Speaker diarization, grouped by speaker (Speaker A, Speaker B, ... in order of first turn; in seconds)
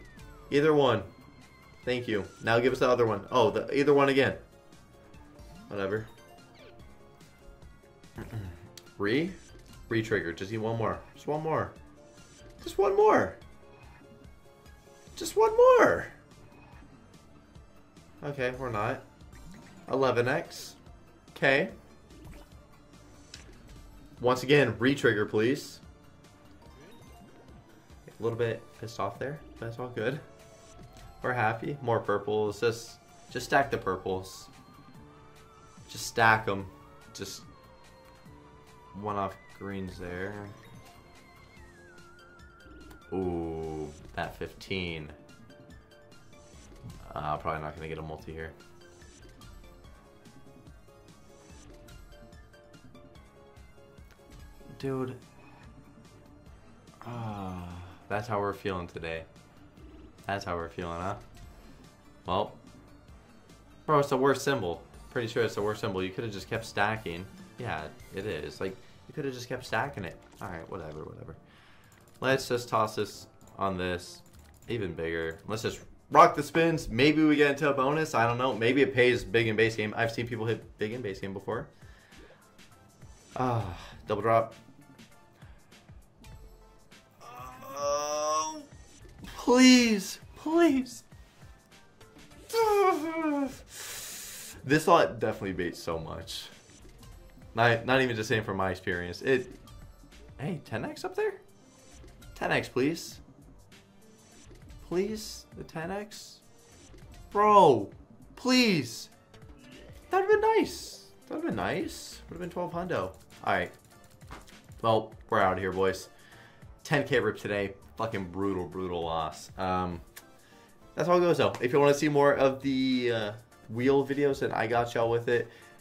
Speaker A: 0.5-1.1, 1.8-4.4, 5.7-6.1, 8.2-11.8, 12.6-13.4, 15.2-16.1, 18.2-19.0, 19.9-20.8, 21.3-21.8, 24.2-25.8, 28.2-30.2, 31.2-34.5, 35.9-37.5, 38.9-40.6, 43.1-45.1, 47.0-48.6, 54.8-55.2, 57.0-59.3, 60.3-61.2, 62.2-62.6, 63.9-71.4, 72.2-81.7, 83.3-84.6, 87.2-88.7, 89.3-91.0, 92.5-96.5, 97.5-99.6, 100.4-101.4, 102.3-103.2, 104.8-106.4, 107.3-109.1, 110.1-113.8, 114.8-116.1, 116.8-120.0, 120.9-125.5